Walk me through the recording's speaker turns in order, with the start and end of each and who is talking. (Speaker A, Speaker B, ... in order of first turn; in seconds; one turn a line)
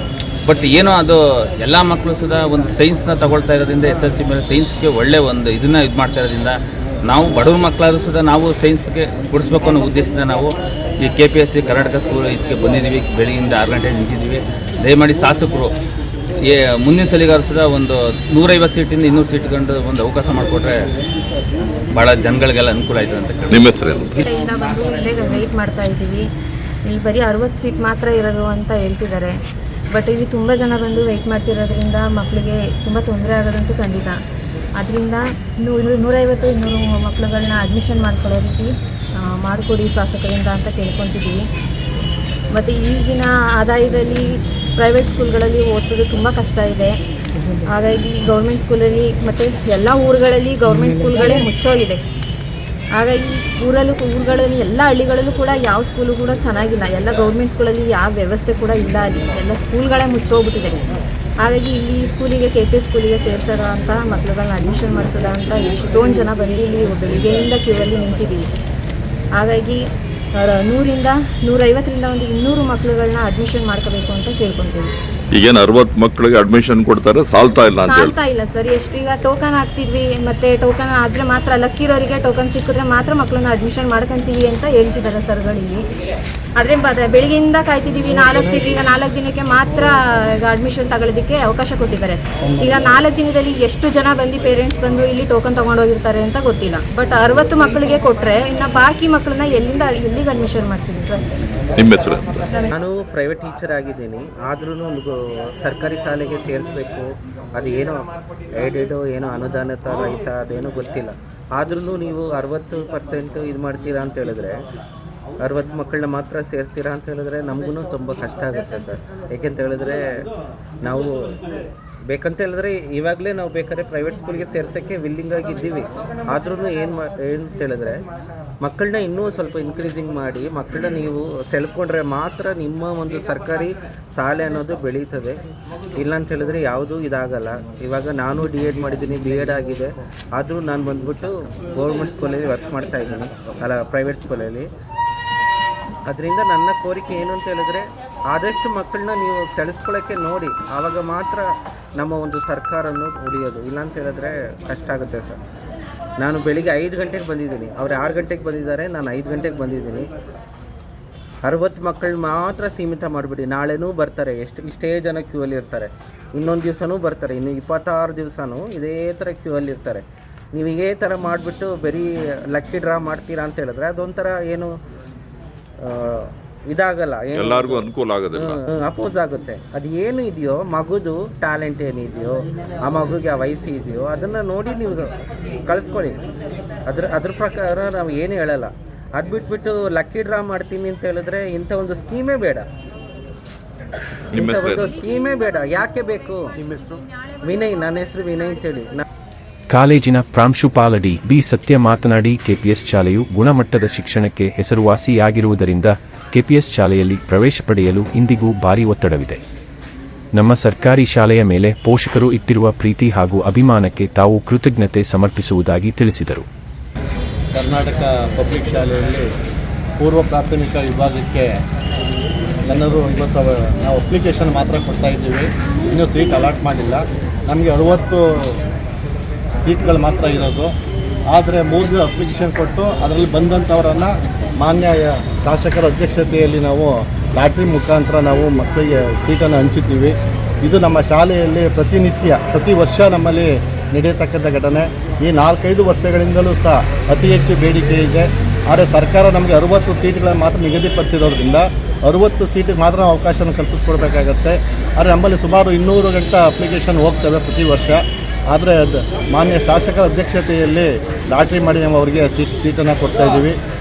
Speaker A: 0.4-15.7
Speaker A: 16.5-20.8
Speaker A: 21.9-23.8
Speaker B: 23.5-24.2
Speaker C: 24.2-26.2
Speaker C: 26.9-29.4
Speaker C: 29.9-34.2
Speaker C: 34.8-41.4
Speaker C: 42.5-47.0
Speaker C: 47.7-52.0
Speaker C: 53.0-60.8
Speaker C: 61.4-68.5
Speaker C: 69.4-69.8
Speaker C: 70.3-74.9
Speaker B: 75.3-78.2
Speaker C: 77.8-85.8
Speaker C: 86.6-101.2
Speaker B: 101.8-102.5
Speaker D: 102.7-108.1
Speaker D: 108.6-114.6
Speaker D: 115.4-120.2
Speaker D: 120.8-121.4
Speaker D: 122.1-128.0
Speaker D: 128.6-135.4
Speaker D: 136.0-144.7
Speaker D: 146.1-155.4
Speaker D: 156.2-160.1
Speaker D: 161.4-174.7
Speaker D: 175.8-186.2
Speaker B: 177.3-178.6
Speaker D: 186.9-192.7
Speaker D: 194.3-196.5
Speaker B: 194.3-194.9
Speaker D: 197.4-199.0
Speaker E: 199.7-209.4
Speaker E: 210.3-216.4
Speaker F: 217.5-219.3
Speaker F: 220.0-221.5
Speaker F: 222.7-228.6
Speaker F: 229.6-230.7
Speaker F: 231.3-263.6